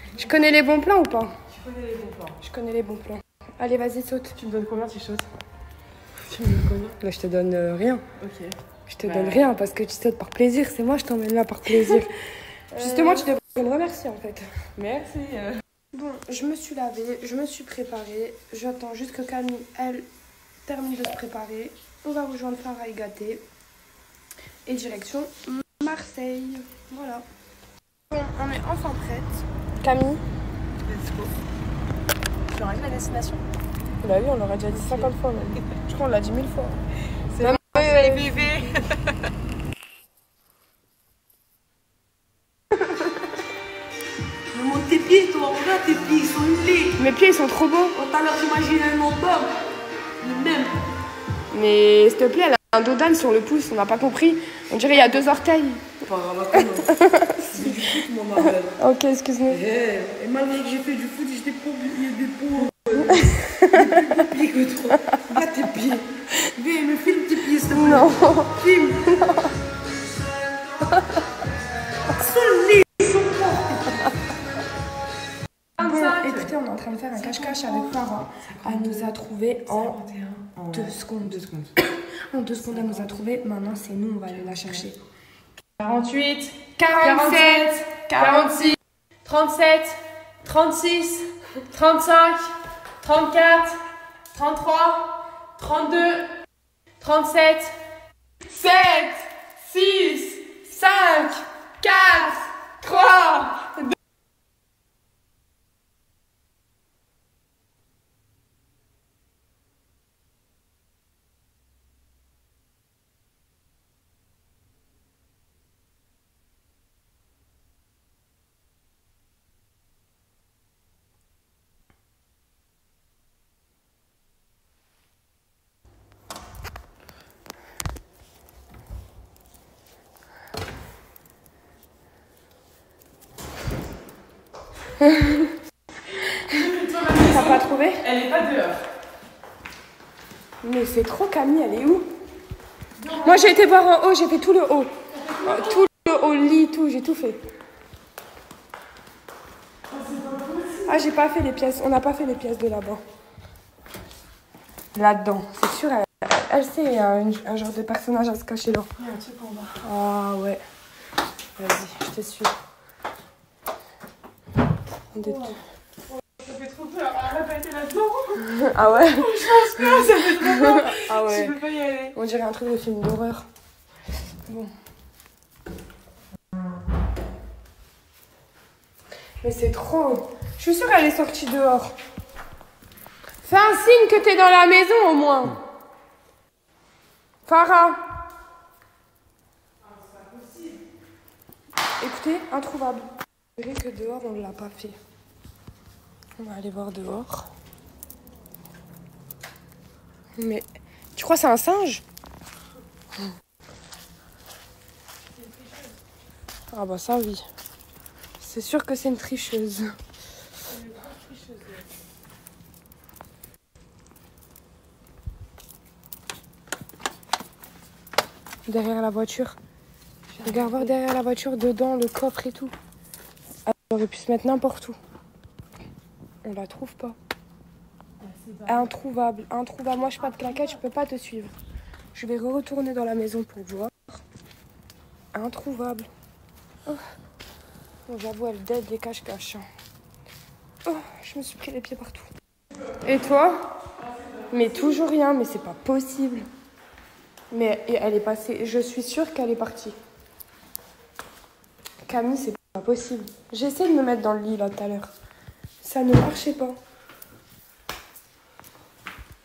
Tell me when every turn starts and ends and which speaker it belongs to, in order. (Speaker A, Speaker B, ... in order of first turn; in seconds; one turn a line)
Speaker A: 0.2-1.3
Speaker B: 1.5-2.4
Speaker A: 2.4-4.3
Speaker B: 4.4-5.2
Speaker B: 6.3-6.9
Speaker A: 7.0-8.0
Speaker B: 8.2-8.5
Speaker A: 8.9-12.1
Speaker B: 9.0-9.5
Speaker A: 12.7-14.5
Speaker B: 12.8-13.2
Speaker B: 14.8-15.6
Speaker A: 15.9-20.1
Speaker A: 20.6-23.4
Speaker A: 24.7-27.2
Speaker B: 28.1-29.4
Speaker A: 29.8-30.2
Speaker B: 30.9-31.3
Speaker B: 32.5-33.4
Speaker A: 34.0-36.8
Speaker B: 34.7-35.2
Speaker B: 37.4-38.6
Speaker A: 37.4-38.4
Speaker C: 37.8-38.3
Speaker C: 44.5-46.9
Speaker A: 47.0-47.9
Speaker C: 48.0-49.5
Speaker C: 50.2-50.7
Speaker A: 51.5-55.8
Speaker C: 56.1-56.8
Speaker A: 56.6-59.6
Speaker C: 57.6-58.6
Speaker C: 59.5-63.1
Speaker A: 63.0-64.2
Speaker C: 64.0-65.9
Speaker C: 66.6-68.1
Speaker A: 67.7-69.5
Speaker C: 72.2-73.2
Speaker A: 75.8-80.1
Speaker B: 75.8-76.4
Speaker B: 77.1-77.9
Speaker B: 78.5-79.1
Speaker B: 79.7-80.9
Speaker A: 80.7-81.7
Speaker A: 82.3-85.0
Speaker B: 85.8-88.5
Speaker A: 86.8-88.5
Speaker B: 89.3-89.9
Speaker B: 90.5-91.2
Speaker B: 91.7-92.4
Speaker B: 93.0-93.7
Speaker B: 94.3-95.0
Speaker B: 95.6-96.2
Speaker B: 97.0-97.6
Speaker B: 98.6-99.2
Speaker B: 99.7-101.2
Speaker B: 101.8-103.6
Speaker A: 135.0-135.5
Speaker A: 136.6-138.1
Speaker B: 138.1-138.8
Speaker A: 140.6-142.1
Speaker A: 143.2-144.9
Speaker A: 145.4-147.4
Speaker B: 150.1-150.7
Speaker A: 150.9-153.0
Speaker A: 154.9-158.9
Speaker B: 159.0-159.8
Speaker A: 159.8-160.6
Speaker A: 161.6-162.5
Speaker A: 165.1-165.6
Speaker B: 165.2-165.5
Speaker B: 166.4-168.4
Speaker A: 168.5-171.6
Speaker B: 169.0-172.1
Speaker A: 172.2-173.5
Speaker A: 179.4-181.9
Speaker A: 183.4-185.6
Speaker A: 187.5-188.0
Speaker B: 190.4-190.7
Speaker A: 192.0-193.1
Speaker A: 193.6-195.0
Speaker A: 196.4-197.5
Speaker A: 200.4-202.0
Speaker B: 205.4-205.9
Speaker A: 206.7-207.4
Speaker A: 208.4-209.9
Speaker B: 210.7-211.8
Speaker A: 218.7-219.6
Speaker B: 220.4-220.9
Speaker A: 220.4-222.7
Speaker A: 223.7-225.0
Speaker A: 226.4-227.2
Speaker B: 228.2-228.9
Speaker A: 228.7-231.5
Speaker A: 232.2-234.2
Speaker A: 235.3-236.1
Speaker A: 238.1-239.7
Speaker A: 240.9-242.3
Speaker A: 243.1-243.7
Speaker A: 244.5-246.5
Speaker A: 247.5-250.0
Speaker A: 252.1-255.1
Speaker A: 255.8-256.8